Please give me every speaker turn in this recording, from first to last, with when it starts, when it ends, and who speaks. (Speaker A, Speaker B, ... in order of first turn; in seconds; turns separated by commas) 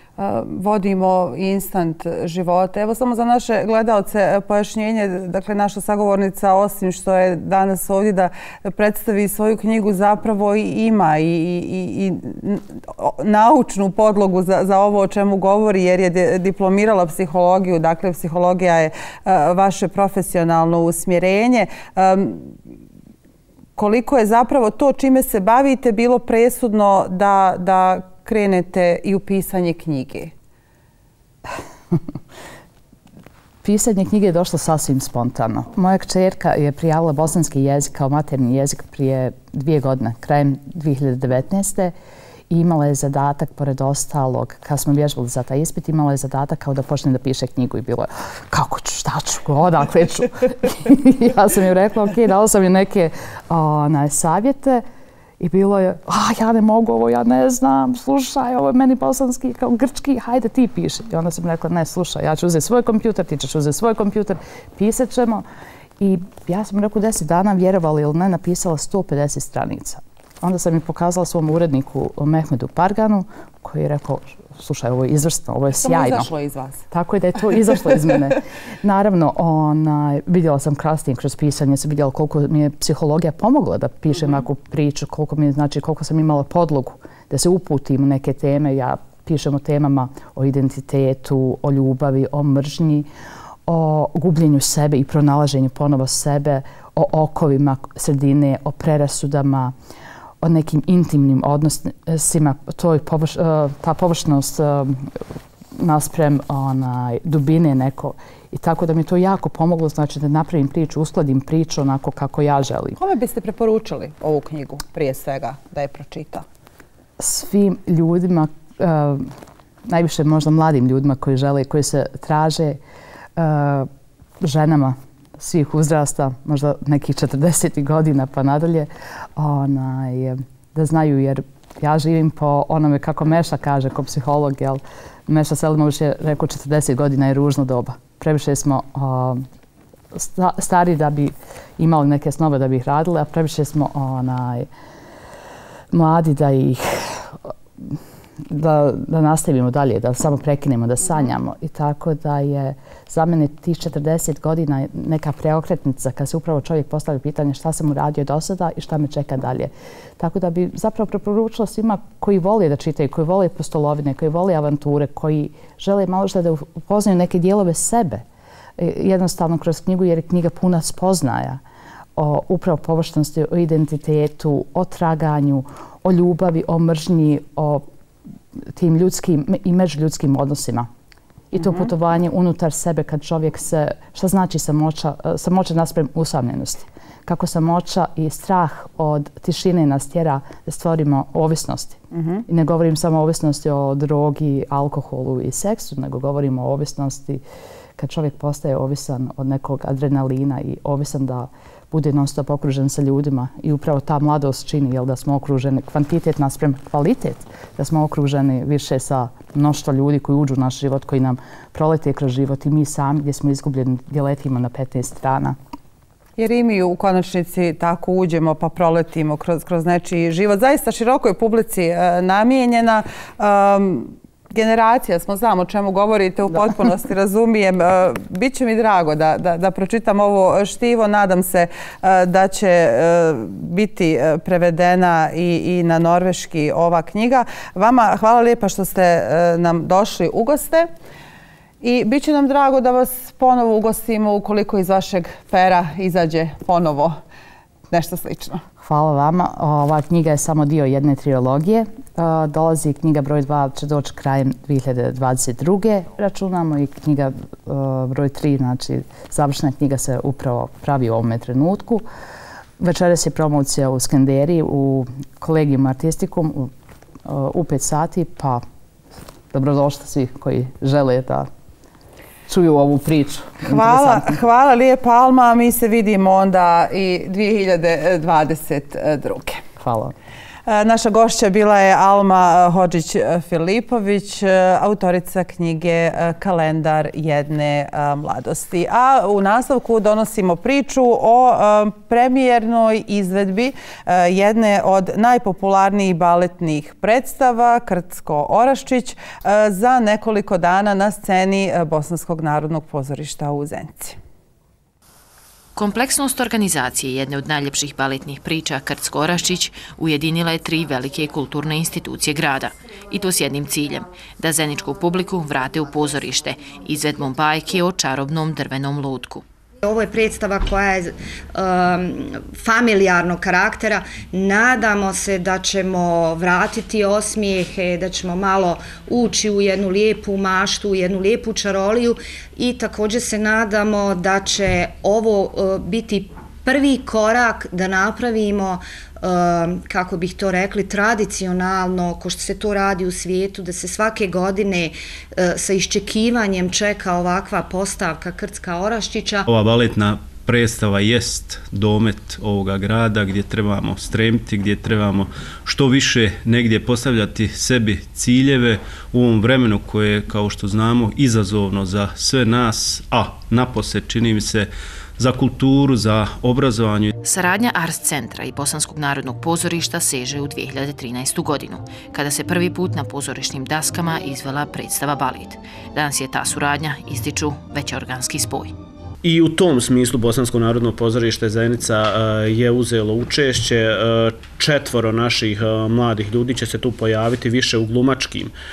Speaker A: 0.2-22.6, Speaker A: 23.8-30.3, Speaker B: 33.6-41.9, Speaker B: 42.5-54.8, Speaker B: 55.4-65.4, Speaker B: 66.0-76.3, Speaker A: 75.8-76.8, Speaker B: 76.9-93.1, Speaker B: 93.7-99.7, Speaker B: 100.4-105.1, Speaker B: 105.8-113.0, Speaker A: 113.0-116.4, Speaker B: 117.2-119.3, Speaker B: 119.9-122.8, Speaker B: 123.4-123.9, Speaker B: 124.4-139.4, Speaker B: 140.1-144.7, Speaker B: 145.9-148.0, Speaker B: 148.5-168.2, Speaker B: 168.8-171.6, Speaker B: 172.2-177.8, Speaker B: 178.8-180.9, Speaker B: 181.5-197.4, Speaker A: 181.6-181.9, Speaker A: 192.1-192.4, Speaker B: 198.0-215.6, Speaker A: 216.4-240.9, Speaker A: 241.8-247.2, Speaker A: 247.9-248.6, Speaker B: 248.8-262.1, Speaker B: 262.8-266.7, Speaker B: 267.3-268.6, Speaker B: 269.5-271.5, Speaker B: 272.5-274.4, Speaker A: 273.7-279.6, Speaker B: 279.8-280.1, Speaker A: 280.7-304.2, Speaker C: 305.8-319.4, Speaker D: 319.8-349.5, Speaker E: 349.5-367.1, Speaker C: 367.2-378.7, Speaker E: 379.2-388.5